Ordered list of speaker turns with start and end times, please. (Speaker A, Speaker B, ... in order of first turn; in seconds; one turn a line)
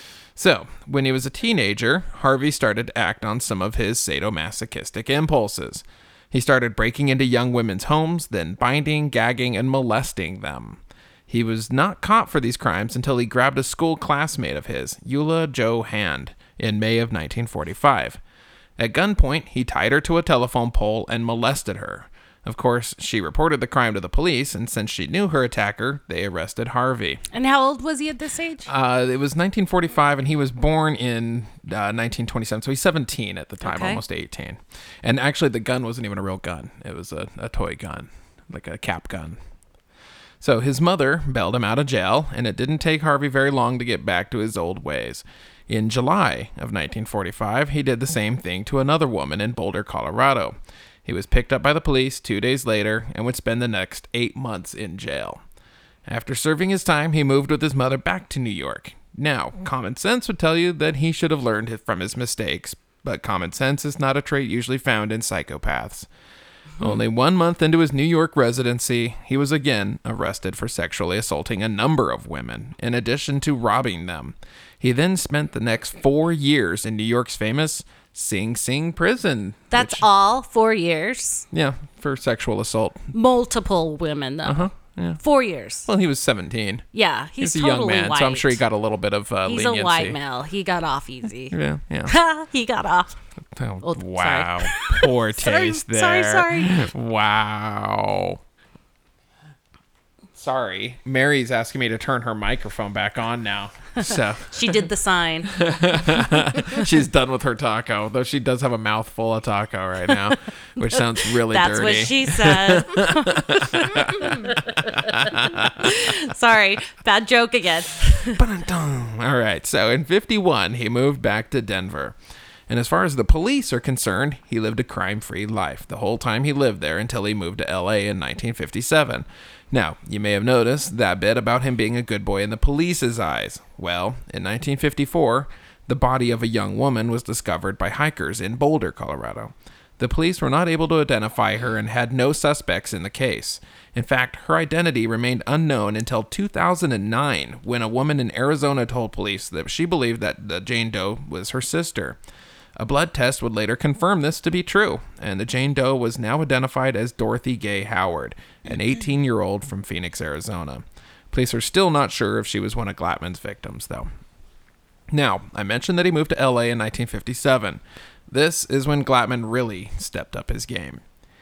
Speaker A: 0.3-18.2
Speaker A: 18.8-27.2
Speaker B: 27.3-28.7
Speaker A: 28.7-39.4
Speaker B: 33.6-34.0
Speaker A: 40.4-55.4
Speaker A: 56.0-66.1
Speaker A: 66.8-80.0
Speaker B: 79.7-81.5
Speaker A: 81.5-83.1
Speaker B: 83.1-85.9
Speaker A: 84.4-85.2
Speaker A: 85.8-86.8
Speaker B: 86.9-88.6
Speaker A: 87.4-90.2
Speaker B: 89.4-91.5
Speaker A: 91.5-92.1
Speaker B: 92.1-93.2
Speaker A: 93.5-98.4
Speaker B: 93.8-96.9
Speaker A: 100.3-104.8
Speaker B: 104.5-105.6
Speaker A: 105.5-116.1
Speaker B: 110.9-118.4
Speaker A: 118.3-122.2
Speaker A: 122.7-152.2
Speaker A: 152.8-164.1
Speaker A: 165.1-171.0